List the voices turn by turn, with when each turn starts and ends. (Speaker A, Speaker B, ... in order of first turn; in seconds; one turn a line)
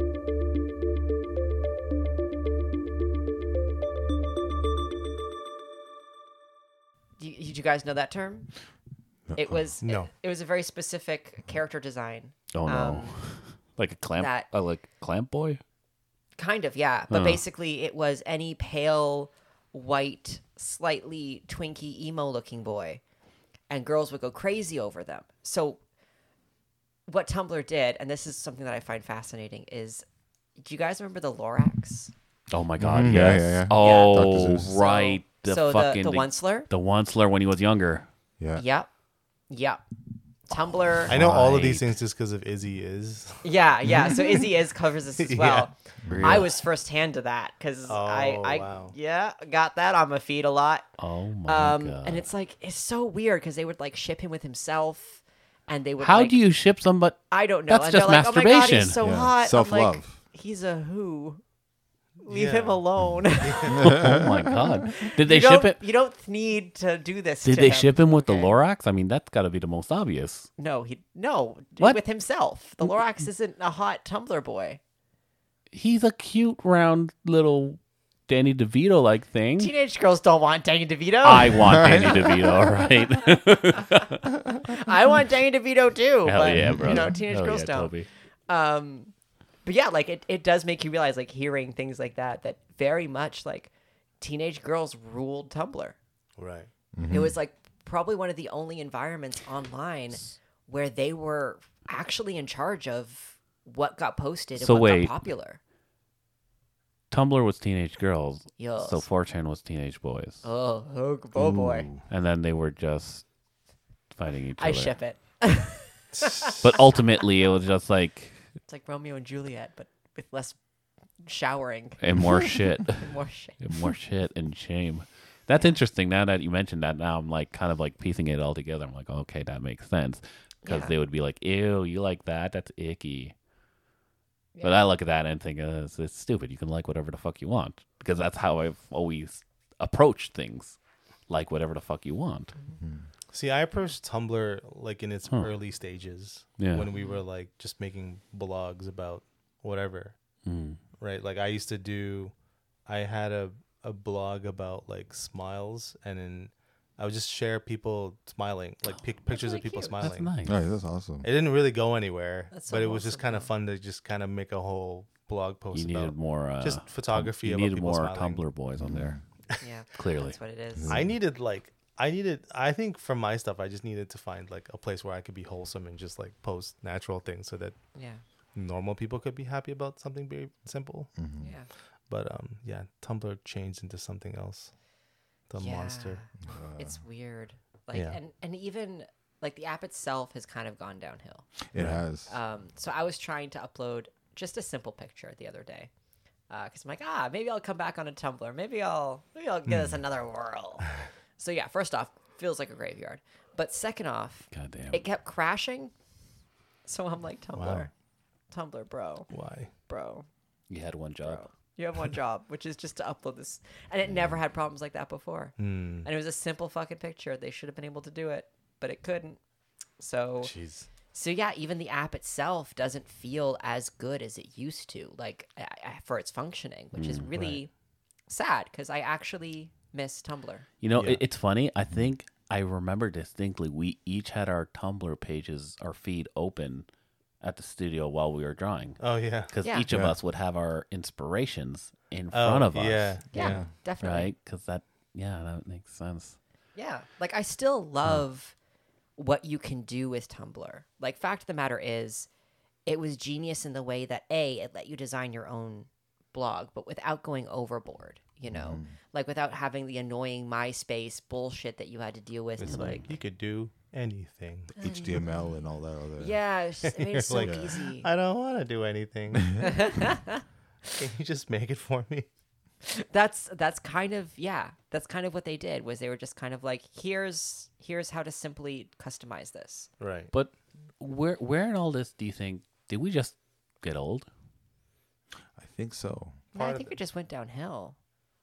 Speaker A: 7.2-8.5
Speaker B: 9.3-9.6
Speaker A: 9.3-13.2
Speaker C: 9.8-10.1
Speaker D: 12.5-15.6
Speaker A: 14.2-14.5
Speaker A: 16.4-23.0
Speaker D: 17.1-17.4
Speaker A: 23.7-25.8
Speaker A: 27.1-30.0
Speaker A: 30.6-32.1
Speaker D: 32.5-38.1
Speaker B: 32.8-34.8
Speaker A: 33.8-36.7
Speaker A: 38.5-38.9
Speaker A: 39.5-39.8
Speaker A: 40.5-41.1
Speaker D: 41.0-42.0
Speaker C: 41.1-43.4
Speaker A: 43.4-50.9
Speaker C: 44.0-44.4
Speaker C: 45.2-45.7
Speaker B: 46.0-46.4
Speaker D: 46.1-46.5
Speaker C: 47.9-48.9
Speaker D: 51.0-52.2
Speaker A: 51.5-56.4
Speaker D: 56.0-59.0
Speaker A: 57.3-61.4
Speaker B: 59.0-60.2
Speaker A: 62.2-63.9
Speaker C: 62.3-62.8
Speaker C: 63.4-63.8
Speaker B: 63.7-64.8
Speaker D: 63.8-65.8
Speaker A: 64.9-68.5
Speaker D: 67.4-70.5
Speaker A: 70.6-74.8
Speaker D: 75.7-79.7
Speaker A: 79.6-82.1
Speaker D: 81.2-84.2
Speaker B: 81.6-82.5
Speaker A: 84.6-87.9
Speaker D: 86.2-88.1
Speaker B: 86.5-87.2
Speaker A: 88.5-89.1
Speaker A: 89.6-96.0
Speaker C: 96.4-96.7
Speaker B: 96.9-97.3
Speaker A: 97.1-105.6
Speaker D: 104.5-105.2
Speaker D: 107.1-110.4
Speaker A: 108.6-109.0
Speaker A: 110.4-111.9
Speaker B: 111.3-112.0
Speaker D: 112.0-113.2
Speaker D: 114.1-114.9
Speaker A: 114.6-117.0
Speaker C: 116.1-116.7
Speaker D: 116.6-118.4
Speaker A: 118.7-120.6
Speaker A: 121.2-123.8
Speaker D: 122.0-133.3
Speaker A: 130.6-130.9
Speaker A: 134.5-134.8
Speaker D: 134.6-142.5
Speaker B: 142.8-143.1
Speaker C: 143.3-150.2
Speaker D: 146.6-146.9
Speaker A: 146.9-147.2
Speaker D: 150.4-150.8
Speaker C: 151.0-152.3
Speaker C: 152.8-160.3
Speaker A: 159.3-160.1
Speaker D: 160.0-160.6
Speaker B: 160.4-161.3
Speaker C: 161.2-168.4
Speaker A: 162.5-163.5
Speaker D: 165.7-169.2
Speaker B: 168.8-169.2
Speaker A: 169.6-171.0
Speaker D: 169.9-170.3
Speaker B: 170.7-171.1
Speaker C: 170.9-177.8
Speaker A: 177.9-178.2
Speaker C: 178.5-181.1
Speaker B: 181.2-181.5
Speaker A: 181.4-181.7
Speaker C: 182.1-184.7
Speaker C: 185.5-186.2
Speaker A: 185.6-191.5
Speaker B: 186.4-187.0
Speaker C: 187.9-188.2
Speaker B: 191.7-192.3
Speaker C: 191.7-192.0
Speaker A: 192.3-195.9
Speaker A: 196.5-200.9
Speaker C: 199.7-200.0
Speaker A: 201.4-205.9
Speaker D: 204.5-205.0
Speaker A: 206.8-207.9
Speaker C: 207.5-207.9
Speaker A: 208.5-209.3
Speaker C: 209.3-209.7
Speaker A: 209.9-210.3
Speaker D: 210.7-211.5
Speaker A: 211.2-219.4
Speaker C: 215.6-216.1
Speaker A: 220.0-220.5
Speaker C: 220.4-220.9
Speaker A: 221.1-227.7
Speaker D: 226.9-227.3
Speaker C: 227.3-227.6
Speaker A: 228.3-230.6
Speaker D: 230.8-236.9
Speaker C: 230.9-231.2
Speaker D: 237.4-246.4
Speaker C: 239.0-239.6
Speaker B: 239.9-240.2
Speaker C: 242.3-243.7
Speaker A: 243.3-244.3
Speaker A: 246.8-248.5
Speaker A: 249.2-252.3
Speaker A: 252.8-263.1
Speaker B: 258.5-258.9
Speaker C: 262.6-264.7
Speaker D: 262.6-263.1
Speaker A: 264.8-265.5
Speaker B: 264.8-266.4
Speaker A: 266.2-268.1
Speaker C: 266.8-270.1
Speaker B: 267.4-267.7
Speaker A: 269.6-270.4
Speaker C: 270.9-272.3
Speaker A: 272.8-279.9
Speaker C: 280.0-280.3
Speaker D: 280.3-284.3
Speaker B: 285.6-286.4
Speaker C: 286.5-286.9
Speaker A: 286.5-287.9